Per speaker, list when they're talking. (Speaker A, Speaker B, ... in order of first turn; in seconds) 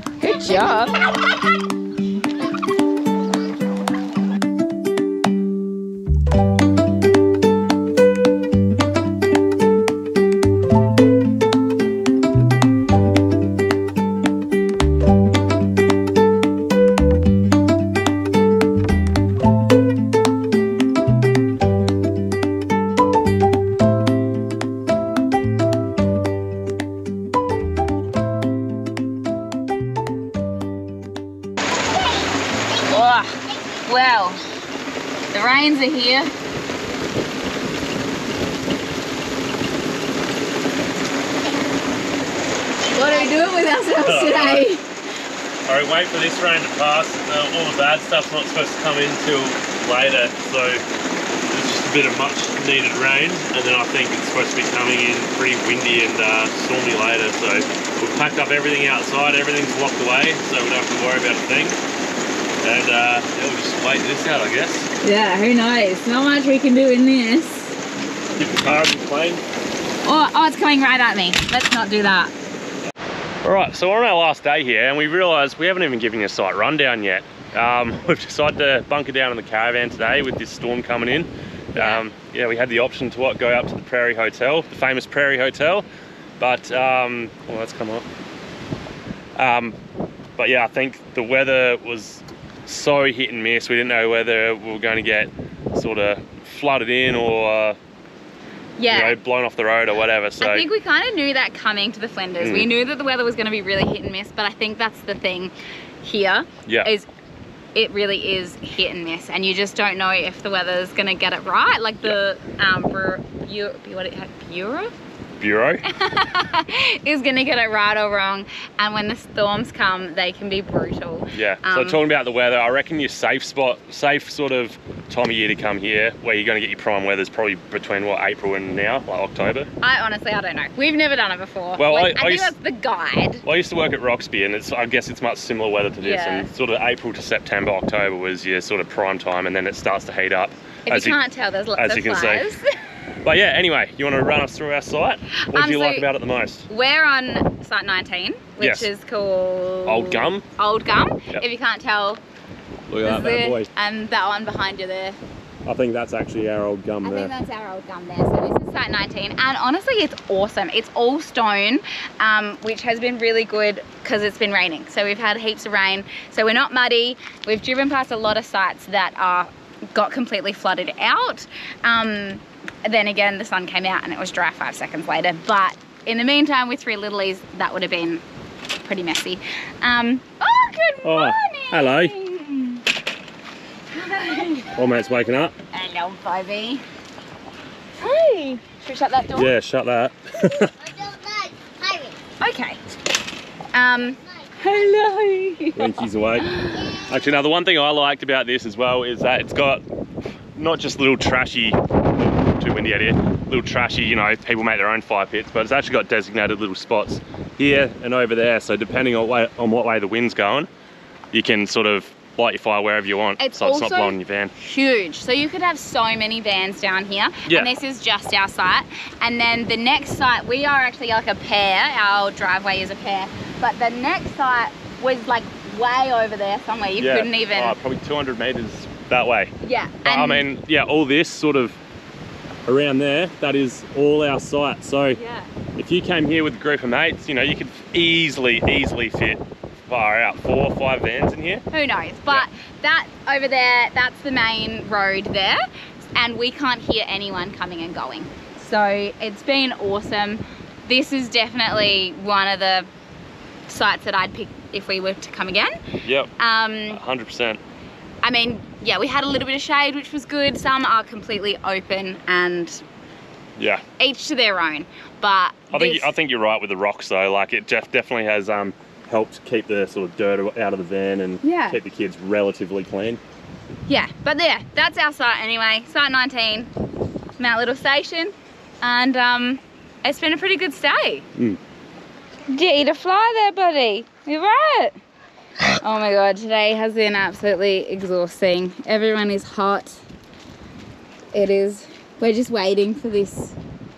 Speaker A: 0.2-1.0, 32.9-34.4, 35.3-36.3, 42.9-44.8, 65.0-67.8, 70.0-72.3, 81.7-82.0, 98.8-99.2, 100.4-107.1, 107.7-115.0, 115.9-122.0, 129.8-133.4, 136.0-136.5, 140.9-142.6, 145.4-146.1, 146.7-152.2, 153.0-155.2, 157.0-178.2, 178.8-182.8, 183.9-184.7, 185.7-186.8, 188.0-189.5, 192.4-192.8, 193.7-195.9, 196.4-196.9, 213.4-227.8, 229.6-230.4, 235.1-235.5, 241.7-245.6, 246.2-252.9, 253.7-255.8, 256.4-257.0, 258.2-262.8, 264.0-266.1, 271.4-271.8, 273.9-276.7, 277.4-281.3, 282.5-284.9, 285.8-290.0, 291.3-293.6
Speaker B: 0.4-0.9, 43.0-43.2, 190.8-192.2
Speaker C: 44.0-44.6, 45.6-50.8, 51.5-61.8, 62.6-64.9, 68.3-69.4, 73.4-85.8, 86.4-88.0, 89.3-89.8, 90.4-97.8, 98.9-100.7, 102.4-102.7, 115.4-115.8, 121.3-129.7, 131.8-132.5, 133.4-141.2, 141.8-142.5, 143.2-146.7, 148.6-148.9, 149.8-150.4, 152.9-153.7, 155.6-157.3, 181.0-182.1, 184.7-185.6, 189.3-190.7, 195.7-199.8, 200.6-210.7, 211.3-214.5, 227.0-229.5, 230.0-231.8, 232.7-235.2, 235.8-241.6, 256.0-256.3, 256.9-257.6, 263.6-263.8, 265.7-273.2